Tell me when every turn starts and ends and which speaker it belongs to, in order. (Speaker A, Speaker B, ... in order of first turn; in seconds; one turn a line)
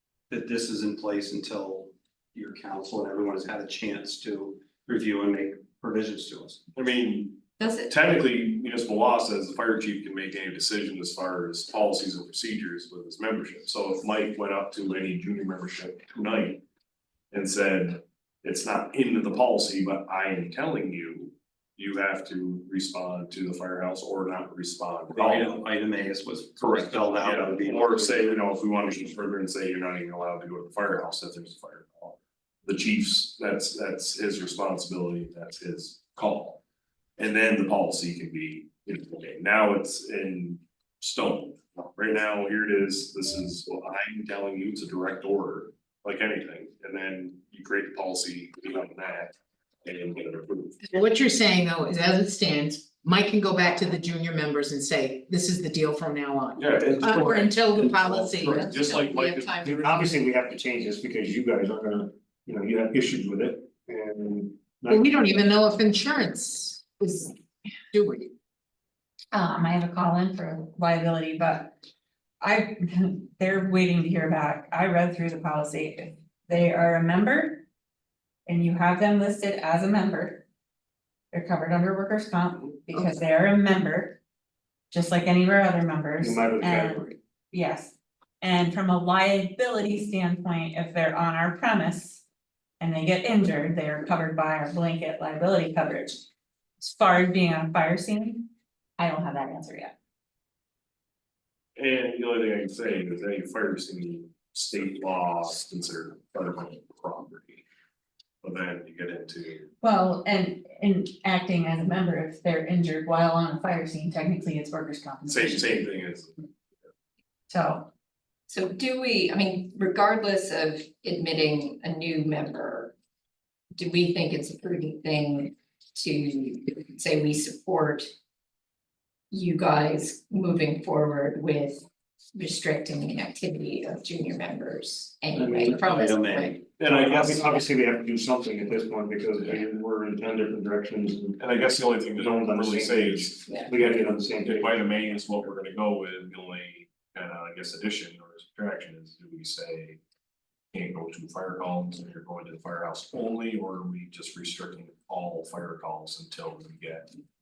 Speaker A: 0.3-6.6
Speaker B: 6.8-16.6
Speaker C: 7.6-7.9
Speaker B: 17.3-25.6
Speaker A: 25.1-28.2
Speaker B: 26.6-36.6
Speaker B: 37.2-50.8
Speaker D: 50.9-59.2
Speaker B: 56.6-59.7
Speaker C: 58.7-59.7
Speaker E: 59.7-64.7
Speaker D: 64.9-67.4
Speaker D: 67.9-68.3
Speaker F: 69.3-71.8
Speaker F: 72.4-77.7
Speaker F: 78.5-80.4
Speaker F: 81.3-84.2
Speaker F: 84.9-92.2
Speaker E: 86.2-87.0
Speaker F: 92.8-96.3
Speaker F: 96.8-99.9
Speaker B: 101.8-107.6
Speaker B: 108.4-109.7
Speaker F: 109.8-115.9
Speaker B: 115.3-116.5
Speaker F: 117.5-117.9
Speaker C: 118.5-122.9
Speaker C: 123.8-128.1
Speaker C: 129.3-136.4
Speaker E: 135.3-141.3
Speaker A: 135.7-136.6
Speaker B: 136.8-137.4
Speaker B: 141.4-143.4
Speaker E: 142.2-144.7
Speaker B: 144.5-150.0
Speaker B: 150.7-157.1